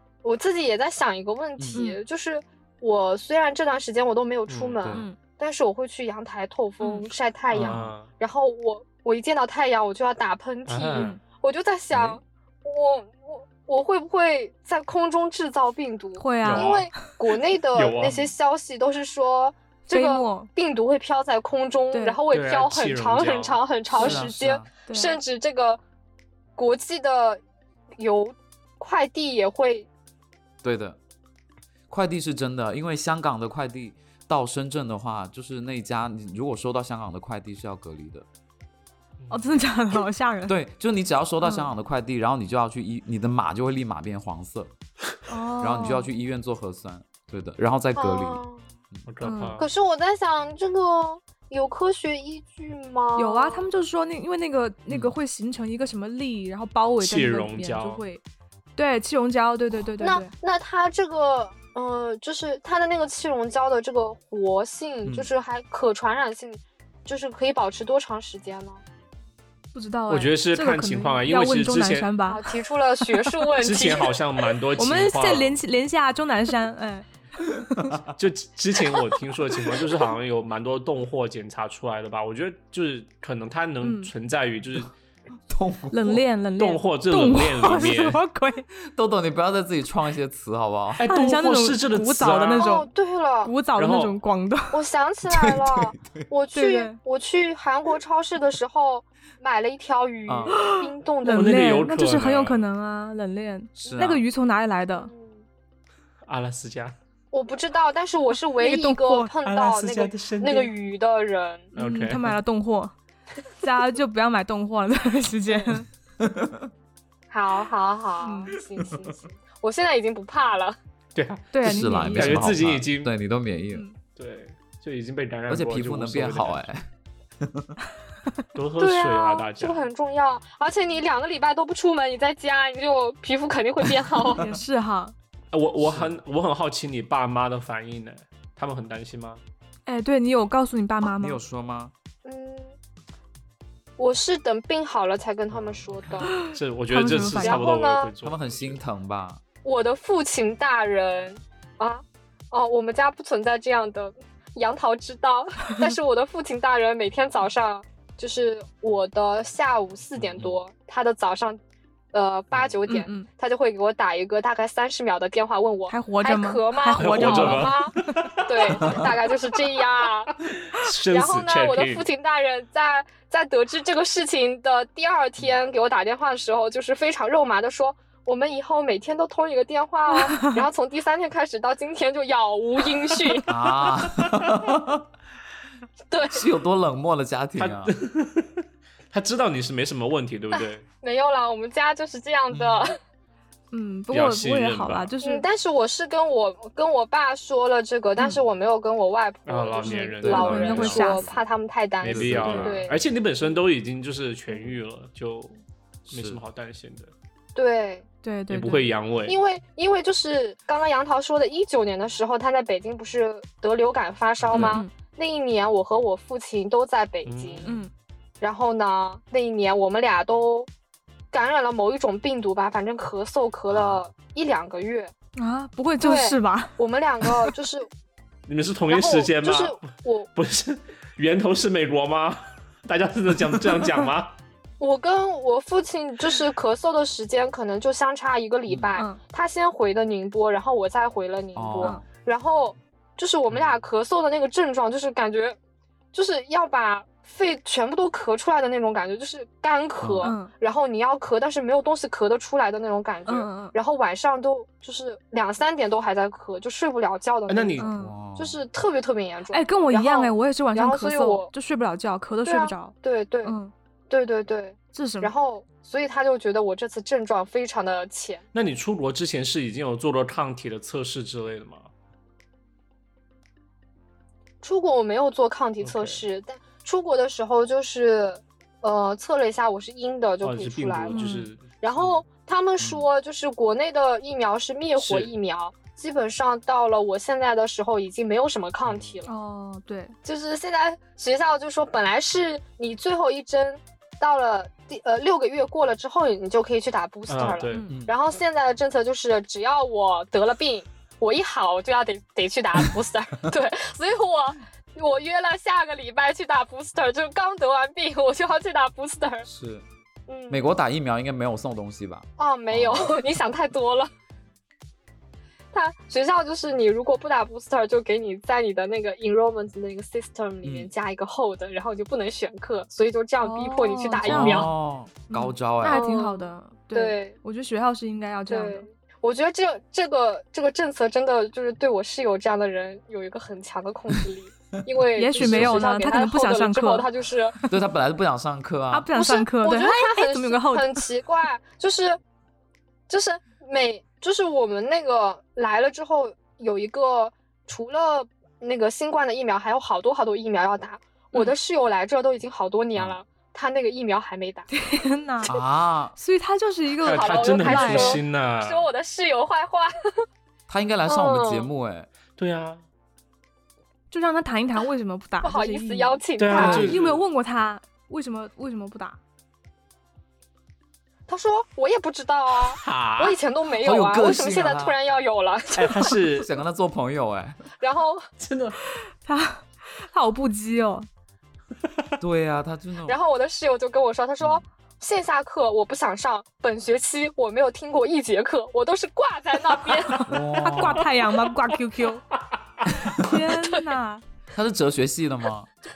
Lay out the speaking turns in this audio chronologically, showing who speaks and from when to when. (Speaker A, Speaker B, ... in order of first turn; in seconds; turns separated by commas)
Speaker A: 0.2-25.8, Speaker B: 4.5-4.8, Speaker C: 4.9-5.2, Speaker C: 6.8-7.1, Speaker B: 7.5-8.1, Speaker B: 10.7-11.1, Speaker C: 10.9-11.2, Speaker D: 11.9-12.2, Speaker C: 16.2-16.8, Speaker B: 16.4-16.9, Speaker B: 17.7-18.3, Speaker C: 19.9-20.5, Speaker C: 21.9-22.2, Speaker B: 22.3-23.6, Speaker D: 23.9-24.7, Speaker C: 24.0-24.3, Speaker C: 24.9-25.2, Speaker A: 26.6-27.4, Speaker A: 28.0-29.9, Speaker D: 30.6-31.0, Speaker D: 31.9-38.2, Speaker B: 39.2-39.6, Speaker C: 39.3-40.5, Speaker D: 40.5-44.7, Speaker C: 41.4-41.7, Speaker C: 45.3-46.1, Speaker D: 45.6-49.0, Speaker A: 48.0-48.6, Speaker B: 49.1-49.6, Speaker C: 49.2-49.6, Speaker A: 49.6-53.7, Speaker C: 53.2-58.2, Speaker B: 57.0-58.0, Speaker C: 58.8-60.3, Speaker A: 60.0-68.8, Speaker C: 69.7-72.4, Speaker B: 70.1-72.1, Speaker A: 72.2-74.1, Speaker C: 73.0-73.9, Speaker B: 73.6-75.6, Speaker C: 74.7-77.9, Speaker D: 77.8-78.0, Speaker B: 78.1-84.9, Speaker C: 83.8-84.1, Speaker D: 85.5-86.2, Speaker C: 85.9-88.7, Speaker B: 86.6-88.2, Speaker D: 88.8-91.0, Speaker B: 91.0-92.7, Speaker C: 91.1-92.9, Speaker A: 92.5-93.5, Speaker C: 93.4-94.8, Speaker B: 93.8-94.2, Speaker A: 94.7-101.6, Speaker D: 95.2-96.3, Speaker C: 96.5-97.0, Speaker D: 100.3-100.5, Speaker C: 100.5-105.1, Speaker B: 101.3-102.6, Speaker D: 103.8-104.2, Speaker A: 104.9-105.4, Speaker B: 106.2-106.9, Speaker A: 107.3-111.7, Speaker C: 108.6-109.3, Speaker B: 109.4-110.7, Speaker C: 111.7-112.9, Speaker B: 111.7-112.3, Speaker C: 113.6-115.9, Speaker D: 116.2-116.7, Speaker A: 117.3-120.8, Speaker C: 118.2-118.5, Speaker B: 121.1-123.1, Speaker C: 121.5-122.5, Speaker D: 121.6-123.8, Speaker C: 123.7-124.0, Speaker B: 124.1-126.7, Speaker D: 125.5-126.8, Speaker D: 127.4-127.7, Speaker B: 128.5-129.8, Speaker A: 128.8-134.4, Speaker C: 134.3-135.1, Speaker B: 135.5-139.4, Speaker D: 135.8-136.2, Speaker C: 139.8-141.4, Speaker D: 141.0-141.9, Speaker A: 142.2-142.7, Speaker A: 144.0-146.3, Speaker B: 145.5-148.8, Speaker C: 146.2-147.6, Speaker A: 147.3-148.1, Speaker D: 148.2-149.4, Speaker A: 149.6-161.6, Speaker B: 160.2-160.6, Speaker A: 162.1-170.3, Speaker C: 162.9-163.3, Speaker C: 165.9-167.8, Speaker B: 166.9-169.0, Speaker B: 170.6-172.1, Speaker A: 171.1-183.5, Speaker C: 180.1-180.6, Speaker D: 183.5-185.0, Speaker B: 183.8-184.3, Speaker A: 186.1-186.4, Speaker D: 186.3-187.9, Speaker B: 187.6-190.8, Speaker A: 190.5-193.0, Speaker D: 192.5-192.8, Speaker C: 193.7-195.4, Speaker B: 194.1-195.1, Speaker A: 195.2-203.0, Speaker B: 199.4-201.1, Speaker C: 199.8-201.2, Speaker D: 200.2-201.5, Speaker B: 202.0-205.6, Speaker D: 202.1-202.8, Speaker B: 206.1-207.1, Speaker D: 206.1-206.4, Speaker A: 207.5-208.1, Speaker C: 208.2-208.9, Speaker B: 208.5-209.4, Speaker A: 209.3-217.7, Speaker B: 214.4-214.8, Speaker C: 214.5-214.9, Speaker B: 217.2-217.8, Speaker C: 217.6-217.9, Speaker A: 218.4-220.7, Speaker A: 221.3-225.1, Speaker D: 223.7-224.0, Speaker C: 225.4-227.5, Speaker A: 226.0-227.9, Speaker B: 228.5-229.8, Speaker A: 228.9-230.3, Speaker B: 230.3-234.3, Speaker A: 234.8-245.6, Speaker D: 241.6-242.0, Speaker A: 246.1-257.8, Speaker D: 250.0-250.3, Speaker C: 250.2-250.5, Speaker C: 253.3-253.7, Speaker B: 257.5-257.9, Speaker C: 257.8-258.1, Speaker D: 257.9-258.6, Speaker A: 258.3-261.5, Speaker C: 259.5-263.7, Speaker A: 262.4-263.5, Speaker A: 264.1-268.4, Speaker C: 264.9-265.3, Speaker B: 268.5-271.9, Speaker A: 274.6-281.3, Speaker B: 275.8-276.2, Speaker B: 280.4-282.2, Speaker C: 281.1-281.5, Speaker A: 281.8-289.3, Speaker D: 282.8-283.0, Speaker B: 285.0-285.3, Speaker B: 288.8-289.2, Speaker C: 289.2-290.1, Speaker A: 290.2-309.5, Speaker B: 297.3-297.9, Speaker D: 297.9-298.1, Speaker D: 309.5-309.8, Speaker A: 310.3-310.7, Speaker D: 310.5-313.1, Speaker A: 312.4-314.1, Speaker A: 315.7-324.7, Speaker D: 320.6-320.9, Speaker C: 323.4-324.7, Speaker D: 324.2-326.0, Speaker C: 325.3-328.9, Speaker A: 325.9-327.3, Speaker A: 328.5-337.6, Speaker C: 335.2-337.1, Speaker D: 335.4-335.8, Speaker D: 337.7-339.1, Speaker C: 338.9-341.0, Speaker A: 339.1-342.2, Speaker A: 343.1-354.7, Speaker C: 354.7-355.6, Speaker D: 355.4-356.1, Speaker C: 356.1-358.2, Speaker B: 357.0-358.9, Speaker A: 357.0-360.2, Speaker D: 360.7-362.1, Speaker A: 361.1-361.7, Speaker B: 362.4-362.8, Speaker C: 364.1-369.2, Speaker A: 365.4-366.9, Speaker B: 366.4-367.2, Speaker A: 371.3-376.1, Speaker B: 372.8-373.4, Speaker D: 373.8-375.0, Speaker B: 375.7-376.5, Speaker D: 376.3-377.7, Speaker A: 377.8-378.2, Speaker B: 378.4-378.8, Speaker C: 378.9-381.1, Speaker D: 382.2-383.2, Speaker A: 383.1-390.3, Speaker C: 390.1-392.2, Speaker D: 390.3-391.1, Speaker B: 390.6-391.0, Speaker C: 393.1-394.2, Speaker D: 394.5-395.7